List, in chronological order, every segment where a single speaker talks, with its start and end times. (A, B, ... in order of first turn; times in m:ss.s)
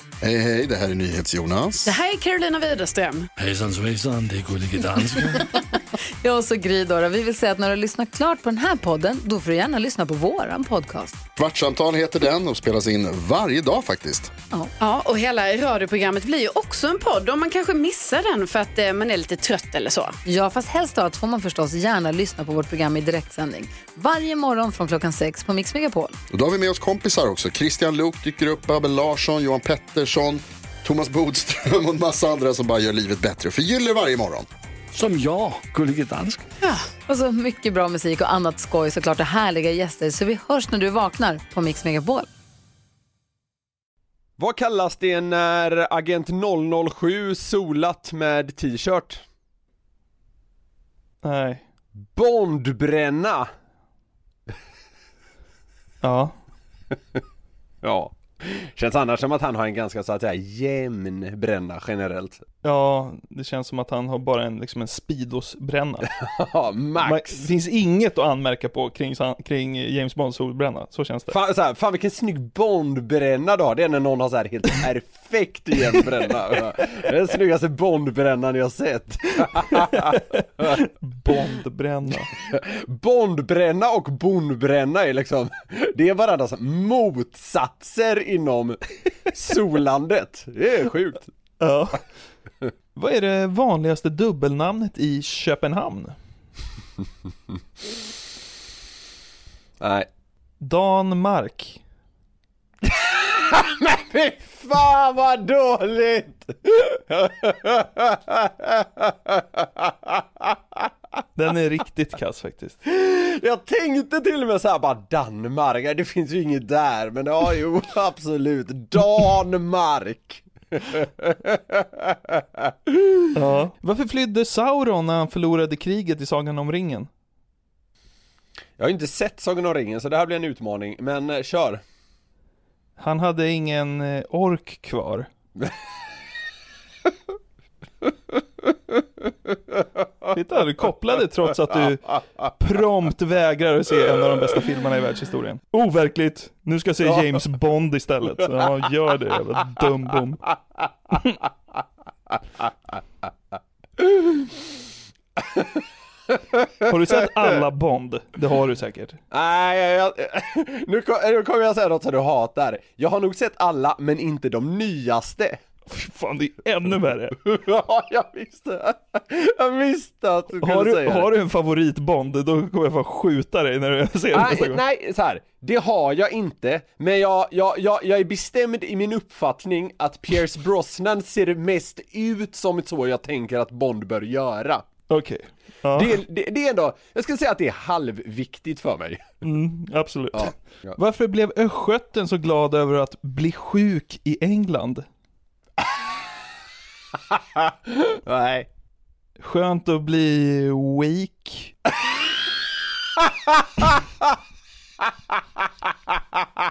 0:00.2-0:01.9 A
0:01.8-0:03.3 B
0:03.4-0:05.5 C
0:06.2-0:11.2 D
0:11.4-0:14.3 A
0:14.8-0:20.2 B
0:20.2-0:26.2 D
0:26.3-0:34.5 A
0:34.9-0:36.5 C
0:36.7-0:42.3 D
0:44.4-0:49.2 E
0:51.2-0:51.6 F
0:52.2-0:53.5 E
0:56.0-0:56.3 F
0:57.8-1:02.4 E
1:02.6-1:06.1 F
1:06.1-1:07.5 E
1:07.0-1:11.4 F
1:11.3-1:20.7 E
1:20.1-1:22.3 F
1:22.5-1:31.3 E
1:31.6-1:32.0 F
1:33.0-1:36.2 F
1:39.8-1:40.1 E
1:40.6-1:41.8 F
1:42.8-1:50.5 E
1:51.4-1:52.8 F
1:52.8-2:03.3 E
2:03.4-2:07.1 F
2:08.8-2:11.8 E
2:13.0-2:15.3 F
2:20.3-2:30.4 F
2:34.0-2:34.4 E
2:35.4-2:35.8 E
2:36.6-2:36.8 E
2:36.8-2:39.2 F
2:39.3-2:45.6 E
2:45.9-2:47.4 F
2:47.4-2:51.3 E
2:50.6-2:54.8 F
2:54.3-3:04.8 E
3:05.1-3:06.2 F
3:05.9-3:09.2 E
3:09.4-3:15.1 F
3:10.3-3:11.0 E
3:17.3-3:18.7 E
3:19.4-3:21.7 F